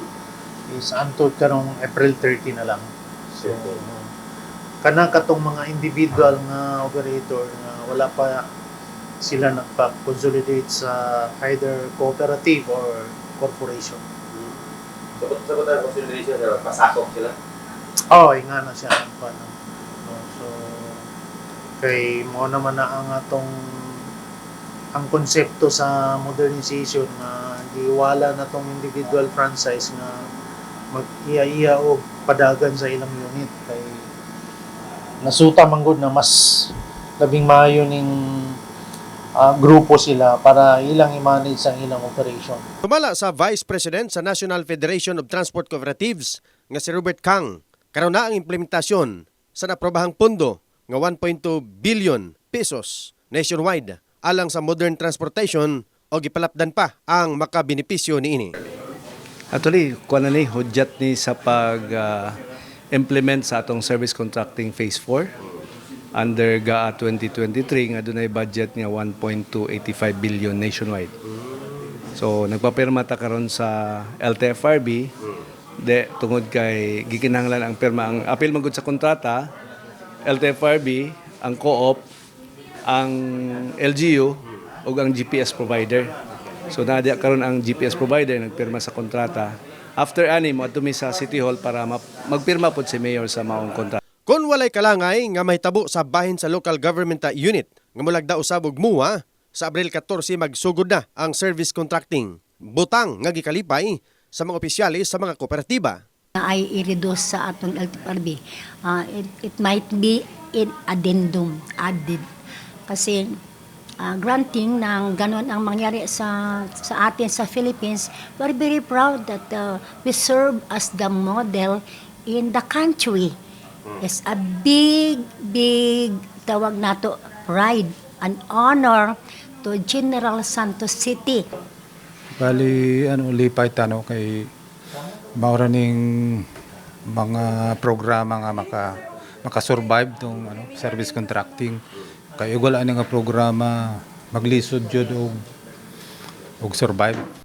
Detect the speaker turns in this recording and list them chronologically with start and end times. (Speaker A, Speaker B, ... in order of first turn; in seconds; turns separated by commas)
Speaker A: 0.7-2.9, Speaker A: 3.4-4.0, Speaker A: 4.8-8.4, Speaker A: 9.2-14.0, Speaker B: 15.2-17.3, Speaker A: 18.1-21.0, Speaker A: 21.8-24.0, Speaker A: 24.9-30.2, Speaker A: 30.9-34.0, Speaker A: 35.2-38.6, Speaker A: 39.4-42.6, Speaker C: 42.8-58.5, Speaker D: 59.5-62.3, Speaker D: 62.9-65.3, Speaker D: 66.1-71.1, Speaker D: 72.2-75.1, Speaker D: 75.8-79.5, Speaker D: 80.2-82.0, Speaker D: 82.9-86.1, Speaker D: 86.7-94.0, Speaker C: 94.2-106.0, Speaker E: 106.4-112.2, Speaker E: 112.9-113.2, Speaker E: 114.0-123.3, Speaker E: 124.0-131.4, Speaker F: 132.4-134.5, Speaker F: 135.4-136.4, Speaker F: 137.1-138.9, Speaker F: 139.4-141.8, Speaker F: 142.4-145.4, Speaker F: 146.6-147.2